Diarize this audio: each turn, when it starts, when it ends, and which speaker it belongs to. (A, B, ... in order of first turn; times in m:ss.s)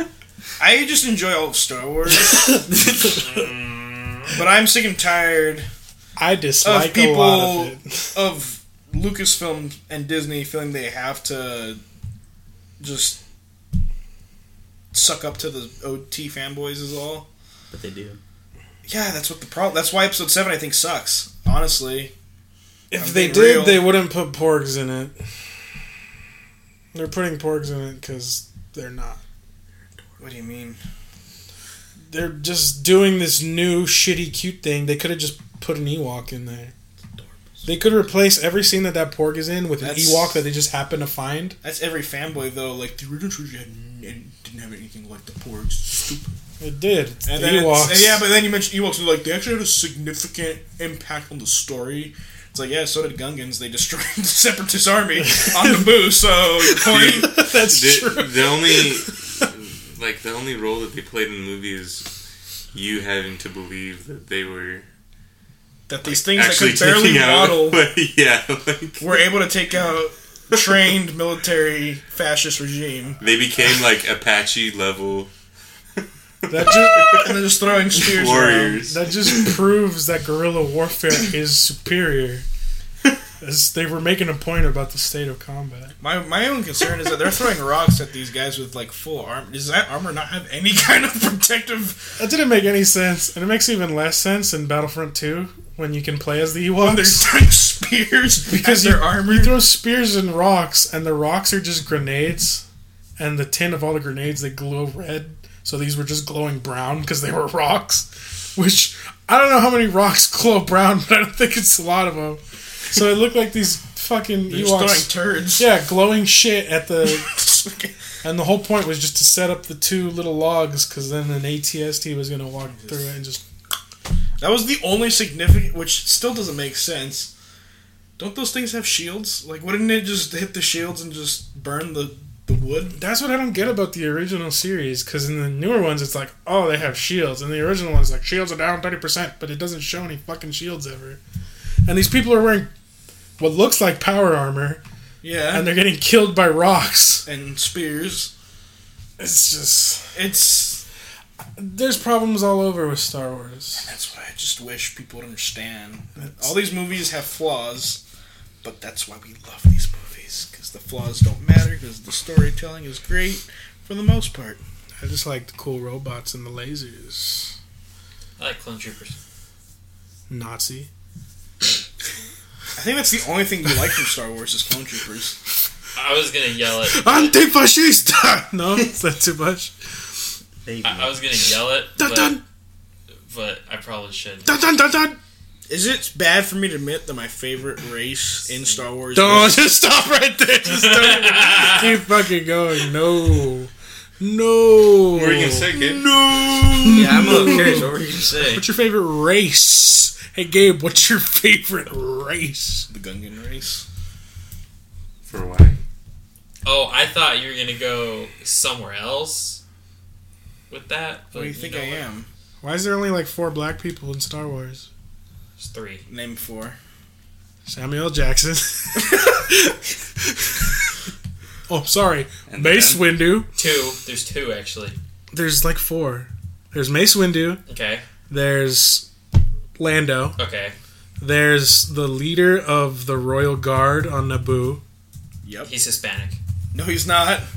0:00.6-0:02.4 A
0:02.3-0:03.3 B
0:03.1-0:04.4 C
0:04.3-0:05.7 A
0:06.2-0:08.2 D
0:06.6-0:11.8 A
0:12.8-0:13.2 A
0:14.9-0:17.3 A
0:17.7-0:18.2 B
0:18.9-0:22.1 A
0:22.9-0:25.3 D
0:22.9-0:23.9 A
0:26.9-0:29.2 D
0:30.2-0:30.8 A
0:32.1-0:36.7 D
0:37.6-0:41.6 D
0:39.8-0:40.4 A
0:41.6-0:46.4 A
0:46.6-0:48.3 D
0:47.3-0:57.4 A
0:55.2-0:56.1 D
0:56.6-0:59.4 D
0:56.8-1:02.1 E
1:02.7-1:04.9 E
1:05.9-1:07.9 A
1:06.0-1:09.2 E
1:09.0-1:13.2 A
1:13.2-1:15.3 E
1:16.0-1:17.4 E
1:16.5-1:17.3 D
1:17.1-1:18.8 A
1:17.9-1:19.4 E
1:18.8-1:22.5 D
1:23.4-1:26.0 D
1:26.0-1:32.2 A
1:32.2-1:37.3 D
1:36.8-1:39.7 A
1:38.5-1:42.6 D
1:43.2-1:57.4 D
1:54.5-1:55.7 A
1:57.2-1:57.9 A
1:58.2-2:03.4 D
2:02.8-2:03.0 A
2:04.4-2:07.3 A
2:08.2-2:13.0 A
2:13.0-2:21.2 D
2:21.9-2:22.7 D
2:23.4-2:24.8 D
2:25.2-2:25.7 A
2:25.5-2:27.3 D
2:27.2-2:28.3 A
2:29.2-2:30.2 D
2:30.1-2:30.8 A
2:31.6-2:33.9 D
2:33.8-2:38.0 A
2:36.2-2:36.5 D
2:38.6-2:44.6 A
2:45.0-2:47.6 D
2:48.4-2:49.2 C
2:50.3-2:50.9 D
2:52.8-2:55.4 A
2:56.0-2:57.4 C
2:56.9-2:59.7 D
3:00.6-3:01.2 B
3:00.8-3:02.4 C
3:02.0-3:02.4 D
3:03.3-3:04.5 C
3:04.4-3:05.2 D
3:05.7-3:09.7 A
3:09.1-3:15.7 D
3:10.7-3:11.9 C
3:15.1-3:16.2 E
3:15.7-3:17.9 A
3:16.7-3:22.9 D
3:16.9-3:18.7 B
3:22.9-3:23.9 A
3:25.2-3:25.8 E
3:26.6-3:29.6 C
3:30.7-3:32.1 C
3:31.3-3:32.3 A
3:32.6-3:34.9 D
3:35.6-3:36.0 C
3:36.1-3:36.8 A
3:37.7-3:40.9 D
3:41.7-3:43.5 D
3:42.5-3:43.2 E
3:43.6-3:45.0 C
3:45.3-3:47.6 D
3:47.7-3:48.0 C
3:48.3-3:49.1 D
3:49.8-3:50.4 D
3:50.4-3:50.8 C
3:51.2-3:54.8 D
3:55.4-3:55.7 A
3:55.6-3:56.4 C
3:56.7-3:57.5 A